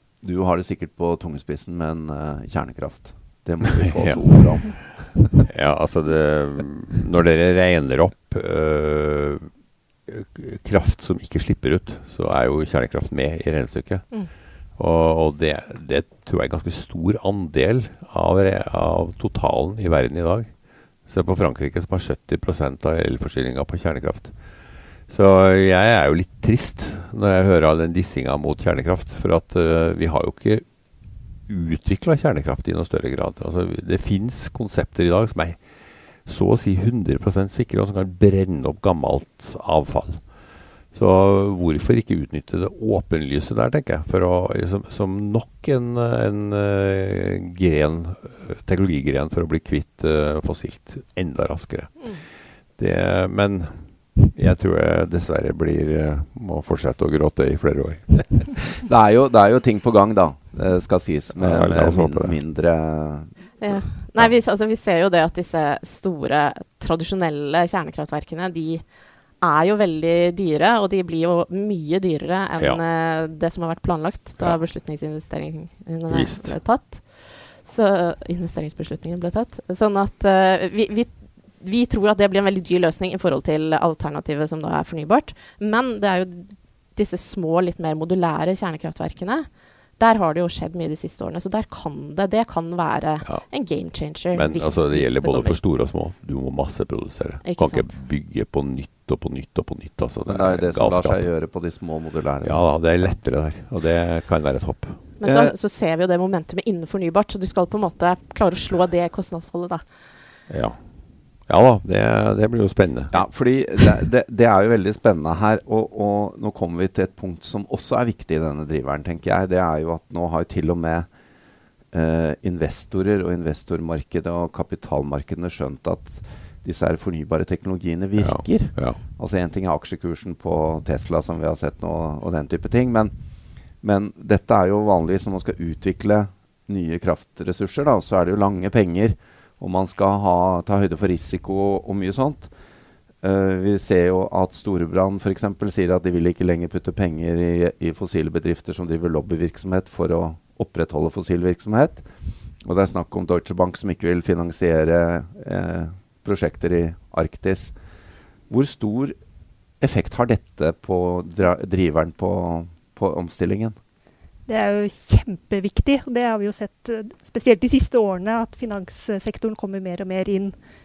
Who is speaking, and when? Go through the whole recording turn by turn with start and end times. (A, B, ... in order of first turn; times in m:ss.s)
0:00.2-0:05.3 A
0:03.8-0:09.5 B
0:10.0-0:58.6 B
0:58.8-1:03.4 A
1:01.4-1:02.4 B
1:03.6-1:08.8 C
1:09.4-1:35.6 C
1:16.1-1:16.6 B
1:33.2-1:41.3 B
1:37.4-1:37.9 C
1:40.2-1:42.6 A
1:42.4-1:45.0 B
1:45.2-1:49.9 C
1:45.2-1:45.5 A
1:50.5-1:50.9 B
1:51.4-1:53.2 B
1:53.1-2:01.1 A
2:01.9-2:13.1 A
2:08.2-2:09.0 B
2:13.8-2:22.5 A
2:23.2-2:32.0 A
2:32.6-2:37.7 A
2:38.5-2:39.2 A
2:39.8-2:43.7 A
2:44.4-2:50.6 D